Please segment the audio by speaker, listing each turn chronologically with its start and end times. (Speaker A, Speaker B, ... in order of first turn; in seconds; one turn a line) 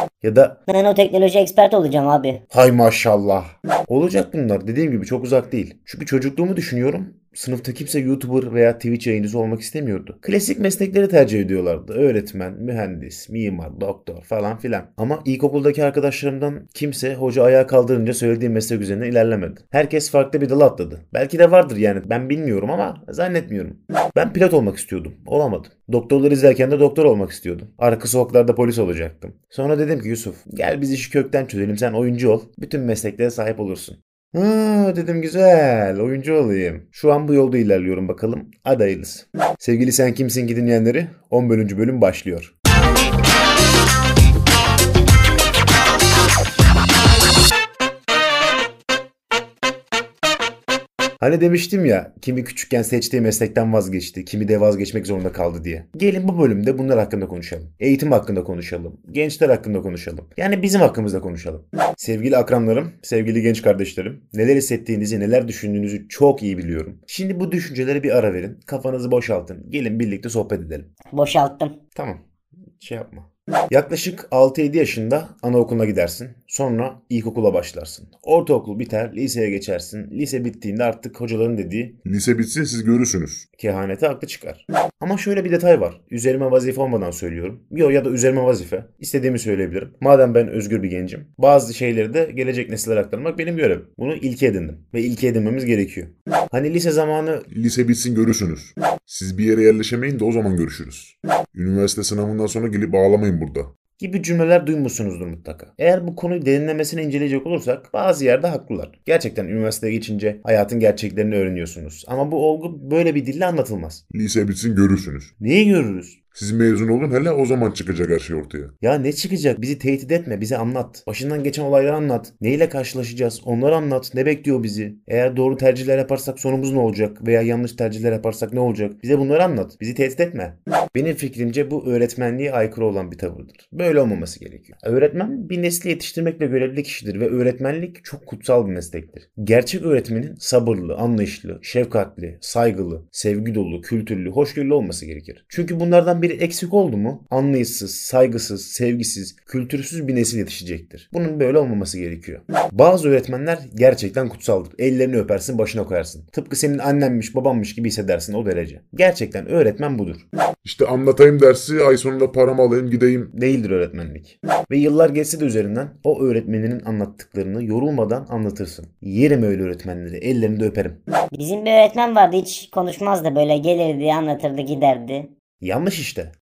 Speaker A: 0.2-0.6
Speaker B: 0.7-2.4
Speaker A: 2.5-42.5
Speaker A: 51.2-70.9
Speaker B: 71.1-71.7
Speaker A: 71.9-72.2
Speaker A: 72.8-82.0
Speaker C: 82.0-83.4
Speaker A: 83.6-97.5
Speaker C: 97.5-103.7
Speaker A: 104.0-114.0
Speaker C: 114.1-115.3
Speaker A: 115.4-116.2
Speaker C: 116.3-118.7
Speaker A: 118.8-160.3
Speaker C: 160.6-163.3
Speaker A: 163.3-171.0
Speaker B: 171.3-175.3
Speaker A: 175.6-176.3